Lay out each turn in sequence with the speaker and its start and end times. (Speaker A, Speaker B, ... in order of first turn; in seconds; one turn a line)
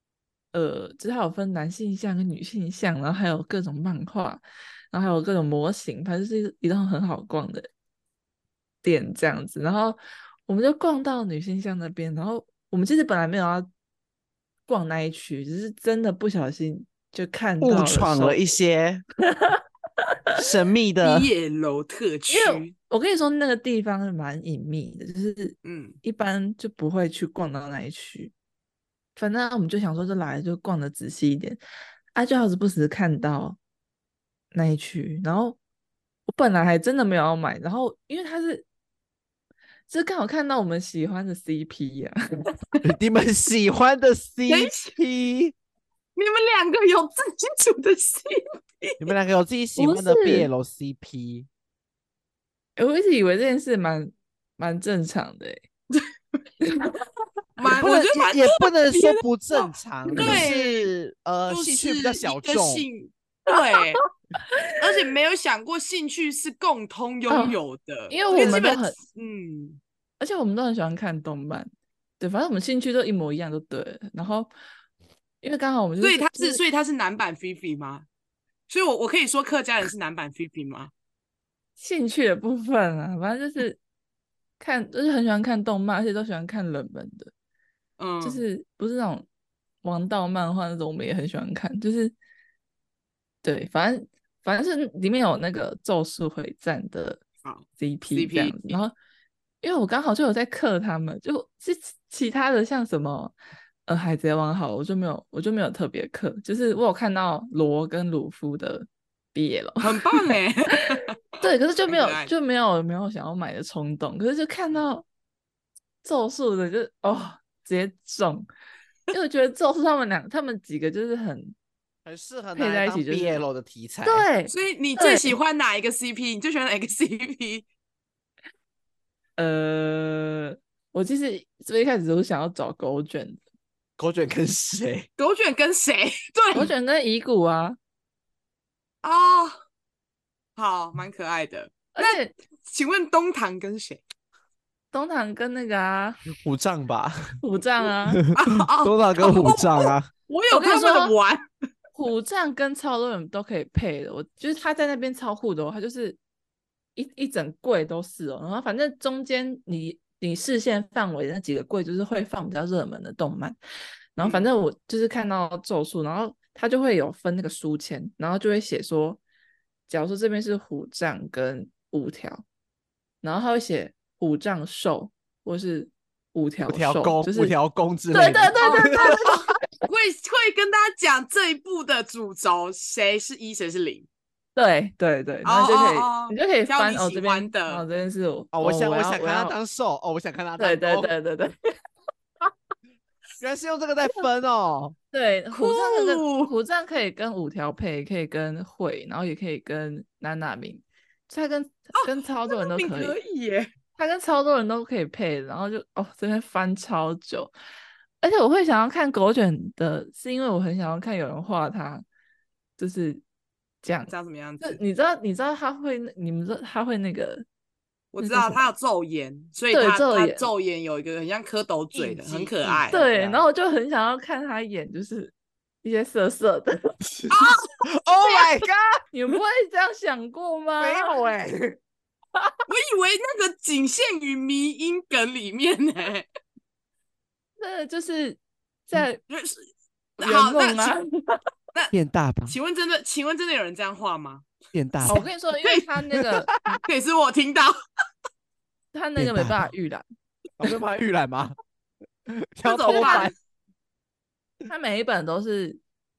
Speaker A: 0.5-4.4
Speaker A: 4.9-7.7
Speaker A: 8.8-13.7
Speaker A: 14.7-18.4
Speaker B: 17.6-19.0
Speaker A: 19.3-19.6
Speaker B: 20.3-21.3
Speaker C: 21.0-22.7
Speaker A: 22.3-28.3
Speaker C: 25.6-26.0
Speaker A: 29.1-31.6
Speaker A: 32.1-33.6
Speaker A: 34.5-35.6
Speaker A: 36.3-38.7
Speaker A: 39.9-42.4
Speaker B: 42.8-45.5
Speaker C: 44.5-45.0
Speaker C: 46.1-49.1
Speaker B: 49.0-51.5
Speaker A: 49.8-50.5
Speaker A: 52.8-55.6
Speaker A: 56.6-57.0
Speaker C: 57.6-59.2
Speaker B: 57.7-62.9
Speaker A: 60.1-60.4
Speaker C: 60.1-60.9
Speaker C: 61.5-64.0
Speaker C: 64.8-69.8
Speaker A: 67.3-67.6
Speaker A: 68.1-69.0
Speaker A: 70.2-74.5
Speaker A: 75.4-76.6
Speaker C: 76.0-78.0
Speaker C: 78.7-80.9
Speaker A: 81.8-83.8
Speaker A: 84.6-87.3
Speaker C: 88.0-88.4
Speaker A: 88.2-89.2
Speaker A: 89.8-92.1
Speaker A: 93.4-97.2
Speaker C: 97.4-98.8
Speaker A: 97.8-98.9
Speaker A: 99.6-103.3
Speaker A: 103.8-110.3
Speaker C: 109.8-112.3
Speaker A: 111.4-115.0
Speaker A: 116.0-118.5
Speaker A: 119.1-121.5
Speaker B: 122.0-124.3
Speaker A: 122.5-123.4
Speaker A: 124.0-125.3
Speaker C: 124.5-127.7
Speaker A: 129.4-133.4
Speaker B: 134.0-135.1
Speaker C: 135.2-136.7
Speaker A: 136.5-137.8
Speaker C: 139.0-139.6
Speaker C: 140.6-144.0
Speaker A: 141.9-142.3
Speaker A: 144.9-146.2
Speaker B: 146.4-147.4
Speaker A: 147.4-148.2
Speaker B: 148.1-150.1
Speaker C: 148.3-151.5
Speaker A: 150.5-151.1
Speaker A: 151.9-156.2
Speaker A: 156.9-163.6
Speaker A: 164.2-169.2
Speaker C: 164.2-164.5
Speaker A: 169.9-172.4
Speaker A: 173.2-177.5
Speaker B: 176.7-179.3
Speaker A: 178.1-179.4
Speaker C: 178.6-184.1
Speaker A: 184.6-189.5
Speaker C: 185.4-187.8
Speaker B: 188.5-191.1
Speaker A: 190.6-191.5
Speaker B: 193.4-194.9
Speaker A: 195.1-203.2
Speaker C: 195.5-196.5
Speaker C: 202.0-203.7
Speaker A: 203.9-207.5
Speaker A: 208.2-212.0
Speaker A: 212.8-213.2
Speaker A: 213.8-217.4
Speaker C: 214.1-214.8
Speaker C: 218.1-222.9
Speaker A: 218.2-218.7
Speaker A: 219.7-220.5
Speaker A: 222.2-227.0
Speaker B: 222.2-223.4
Speaker C: 227.3-227.6
Speaker B: 227.9-229.0
Speaker C: 228.2-228.5
Speaker A: 229.1-231.2
Speaker B: 230.8-231.8
Speaker C: 232.7-236.2
Speaker A: 237.6-239.2
Speaker C: 239.3-239.7
Speaker C: 240.2-241.0
Speaker A: 240.2-241.4
Speaker B: 241.9-242.6
Speaker C: 242.5-244.5
Speaker B: 244.7-245.2
Speaker C: 245.0-245.8
Speaker A: 245.0-246.8
Speaker C: 246.8-247.7
Speaker A: 248.9-250.0
Speaker B: 249.2-249.7
Speaker B: 250.6-251.5
Speaker B: 252.3-253.3
Speaker C: 252.6-253.3
Speaker A: 252.9-253.3
Speaker A: 254.7-255.8